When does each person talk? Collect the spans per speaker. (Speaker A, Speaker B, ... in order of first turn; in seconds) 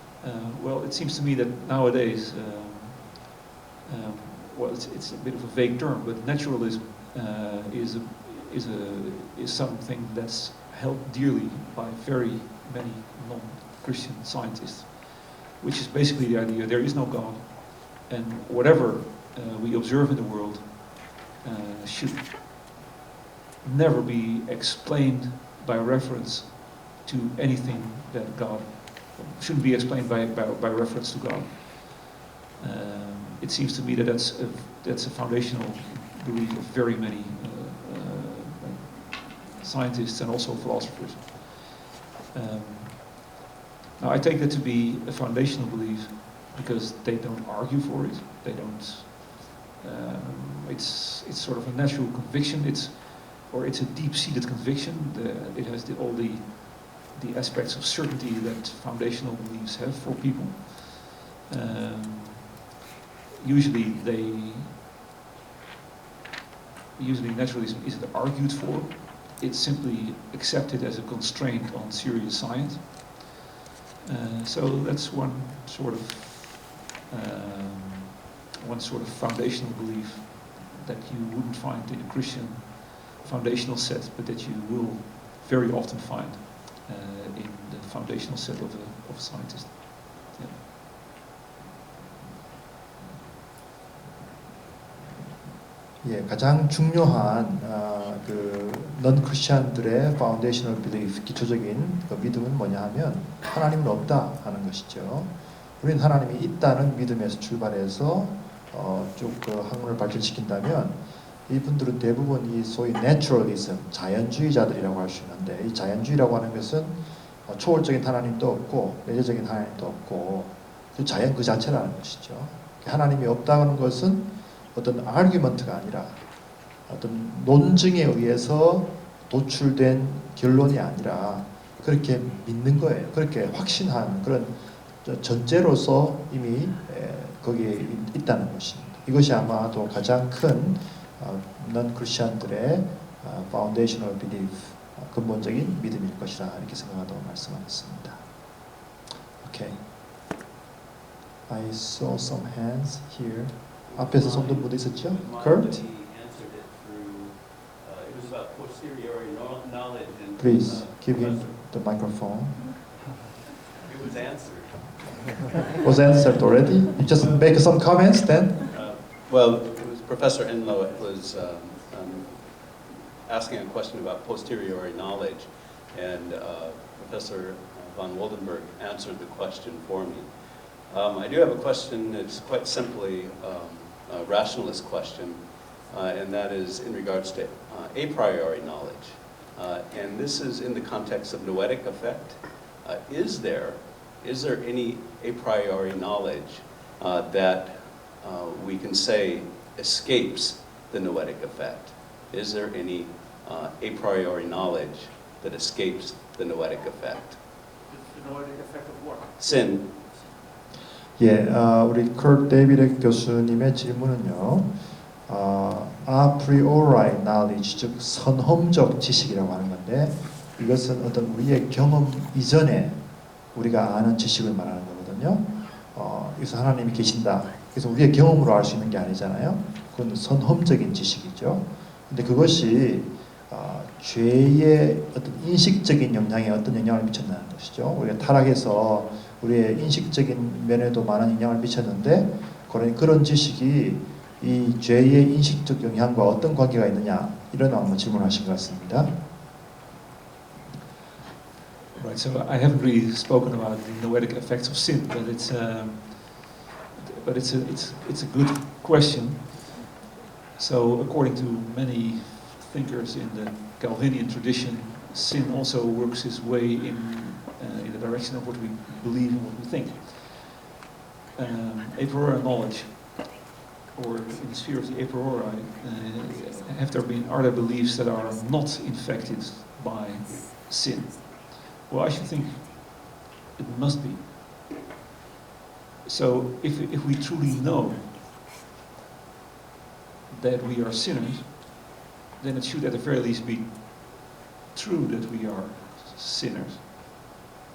Speaker A: 0.2-3.2, 3.8-22.3, 23.6-43.3, 44.0-62.5, 63.4-64.8, 67.0-73.2, 74.0-78.1, 78.6-90.6, 207.9-210.1, 251.9-259.7, 260.6-270.7, 271.3-273.3, 273.9-284.3, 286.0-288.2, 290.3-297.3
Speaker B: 96.0-126.3, 126.8-148.3, 149.4-149.8, 151.5-155.8, 160.4-162.7, 165.8-168.7, 211.2-249.1
Speaker C: 153.9-161.6, 163.8-165.5, 167.2-167.5, 168.7-207.4, 209.4-209.9